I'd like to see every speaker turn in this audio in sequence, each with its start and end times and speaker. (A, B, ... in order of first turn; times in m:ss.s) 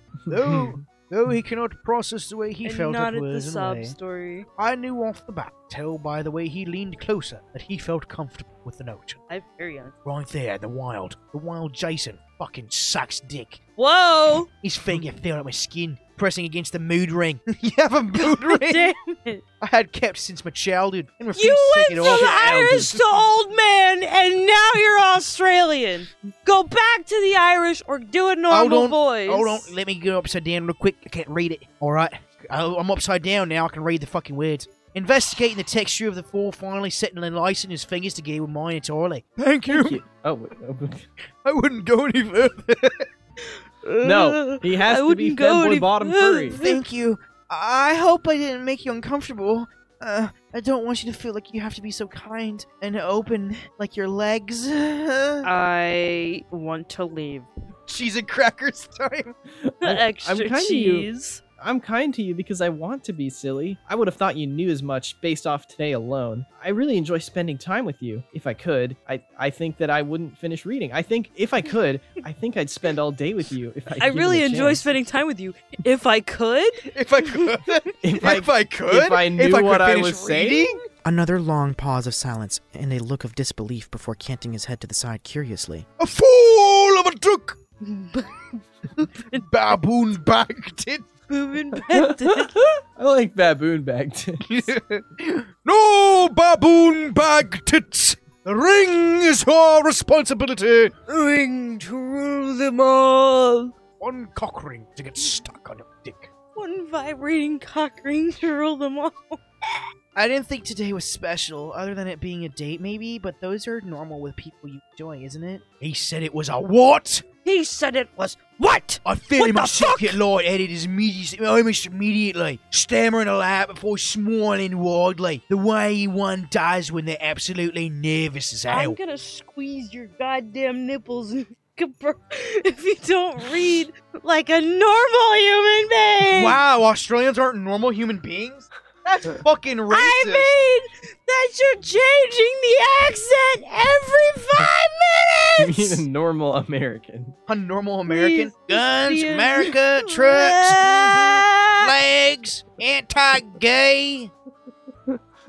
0:00.3-0:03.9 A
0:00.5-0:00.7 B
0:02.6-0:04.5 C
0:04.6-0:09.2 A
0:09.3-0:09.9 C
0:10.0-0:13.6 A
0:13.8-0:14.5 C
0:14.6-0:18.9 A
0:18.2-0:19.4 C
0:19.6-0:23.1 A
0:21.3-0:29.7 C
0:22.0-0:22.3 B
0:28.5-0:40.0 A
0:39.7-0:41.0 B
0:41.4-0:43.1 A
0:43.5-0:46.8 C
0:44.0-0:46.6 B
0:46.6-0:55.5 A
0:55.4-0:57.5 C
0:57.9-0:59.3 A
0:59.6-1:01.1 B
0:59.8-1:01.4 C
1:01.6-1:14.8 B
1:14.0-1:17.5 C
1:16.9-1:20.8 A
1:18.0-1:20.8 B
1:21.0-1:25.9 D
1:26.0-1:27.6 A
1:27.8-1:28.6 C
1:29.0-1:31.1 A
1:31.3-1:32.5 C
1:31.9-1:34.6 B
1:34.4-1:41.0 A
1:41.1-1:43.7 C
1:44.0-1:46.3 A
1:46.5-1:49.4 C
1:50.1-1:57.2 A
1:57.4-2:00.2 C
1:59.0-2:09.0 A
2:08.7-2:16.6 C
2:16.3-2:20.5 A
2:19.9-2:26.0 C
2:25.6-2:27.3 B
2:27.5-2:34.3 A
2:28.0-2:31.9 C